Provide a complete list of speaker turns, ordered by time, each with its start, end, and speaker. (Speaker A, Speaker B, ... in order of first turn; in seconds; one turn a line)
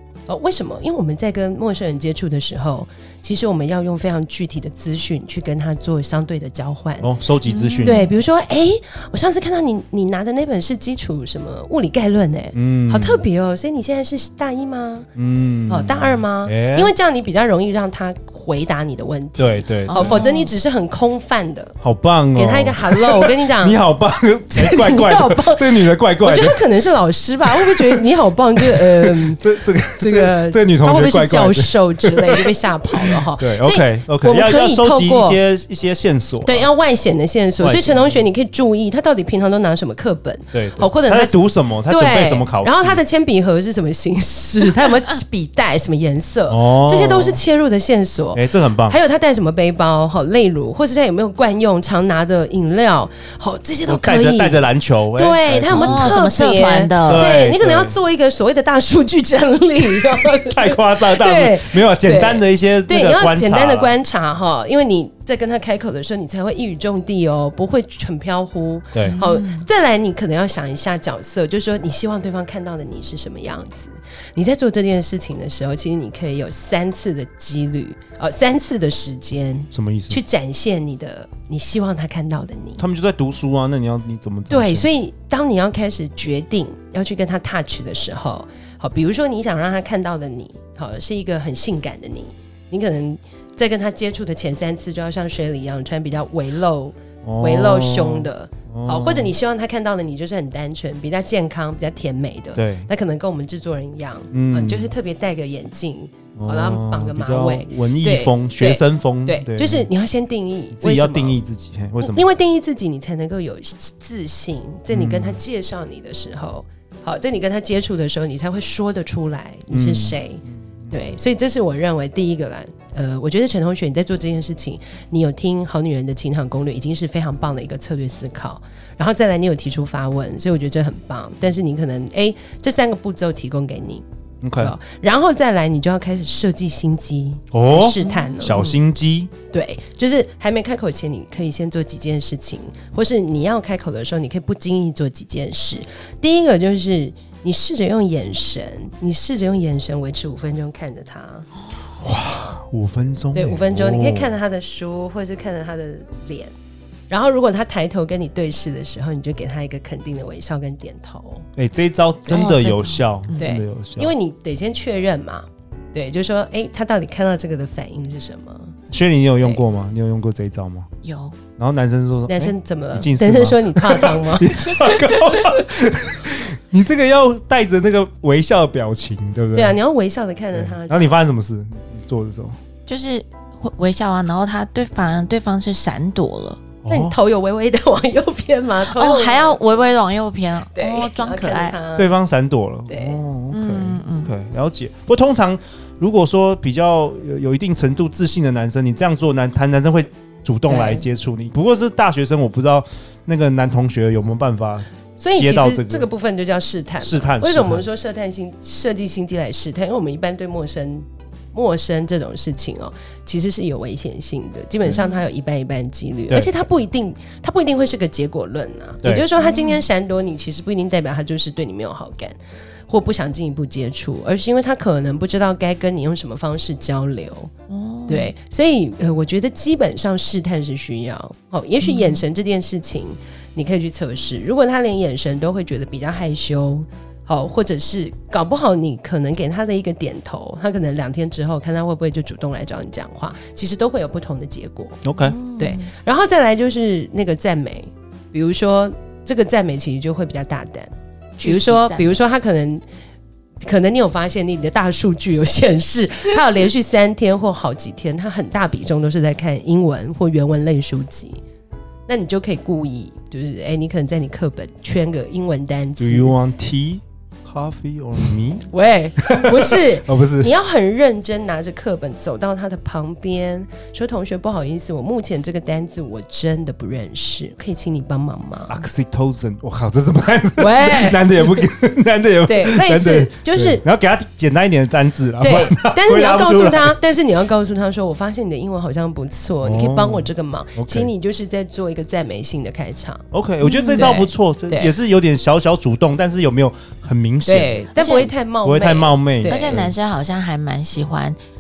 Speaker A: 0.3-7.1
Speaker B: 7.0-8.1
Speaker C: 7.5-8.1
Speaker A: 7.8-15.1
Speaker B: 12.5-13.2
Speaker B: 15.2-16.9
Speaker A: 15.7-21.8
Speaker B: 19.4-20.2
Speaker C: 19.9-20.5
Speaker B: 21.8-26.6
Speaker A: 22.3-23.8
Speaker A: 24.5-35.4
Speaker B: 27.5-28.0
Speaker B: 28.6-32.5
Speaker B: 33.0-36.7
Speaker A: 36.4-82.8
Speaker B: 37.6-38.2
Speaker B: 40.5-43.0
Speaker B: 46.5-47.4
Speaker B: 48.3-49.0
Speaker B: 53.9-56.2
Speaker C: 55.7-57.3
Speaker B: 57.0-58.0
Speaker B: 60.5-63.9
Speaker B: 68.9-69.2
Speaker C: 69.0-69.7
Speaker B: 79.7-80.2
Speaker B: 82.8-84.9
Speaker A: 84.5-111.4
Speaker B: 97.2-99.3
Speaker B: 102.6-102.9
Speaker B: 104.3-104.9
Speaker B: 106.4-109.9
Speaker B: 110.8-112.3
Speaker A: 112.0-134.0
Speaker B: 114.9-115.4
Speaker B: 119.7-120.2
Speaker B: 134.4-134.7
Speaker A: 134.6-138.8
Speaker B: 137.5-139.3
Speaker C: 138.1-138.4
Speaker A: 139.5-151.5
Speaker B: 152.0-154.3
Speaker A: 153.3-156.5
Speaker A: 157.1-161.5
Speaker B: 161.6-164.1
Speaker C: 162.3-163.5
Speaker A: 163.4-168.8
Speaker B: 168.9-170.9
Speaker C: 171.0-171.4
Speaker B: 171.6-179.8
Speaker A: 172.3-175.4
Speaker A: 179.5-181.2
Speaker B: 180.6-182.6
Speaker C: 182.9-186.6
Speaker B: 186.8-187.2
Speaker A: 186.9-189.8
Speaker C: 188.8-191.8
Speaker A: 190.8-192.1
Speaker B: 192.0-206.1
Speaker A: 192.9-193.2
Speaker C: 193.5-194.3
Speaker A: 200.7-201.1
Speaker A: 205.2-222.4
Speaker B: 207.0-207.8
Speaker C: 219.4-219.8
Speaker A: 222.9-227.5
Speaker C: 227.7-228.3
Speaker A: 228.1-245.0
Speaker C: 231.8-232.2
Speaker B: 245.0-245.4
Speaker C: 245.2-245.9
Speaker A: 245.6-252.8
Speaker C: 251.4-252.1
Speaker A: 253.6-261.4
Speaker A: 262.1-266.3
Speaker B: 266.0-268.7
Speaker A: 268.7-278.8
Speaker B: 269.2-270.5
Speaker B: 278.7-287.0
Speaker A: 280.6-281.6
Speaker A: 282.5-283.8
Speaker A: 285.4-293.3
Speaker B: 289.6-291.1
Speaker B: 293.3-297.8
Speaker C: 293.6-294.1
Speaker A: 293.9-294.9
Speaker A: 297.4-299.8
Speaker C: 297.9-298.3
Speaker B: 298.6-299.9
Speaker C: 299.4-301.4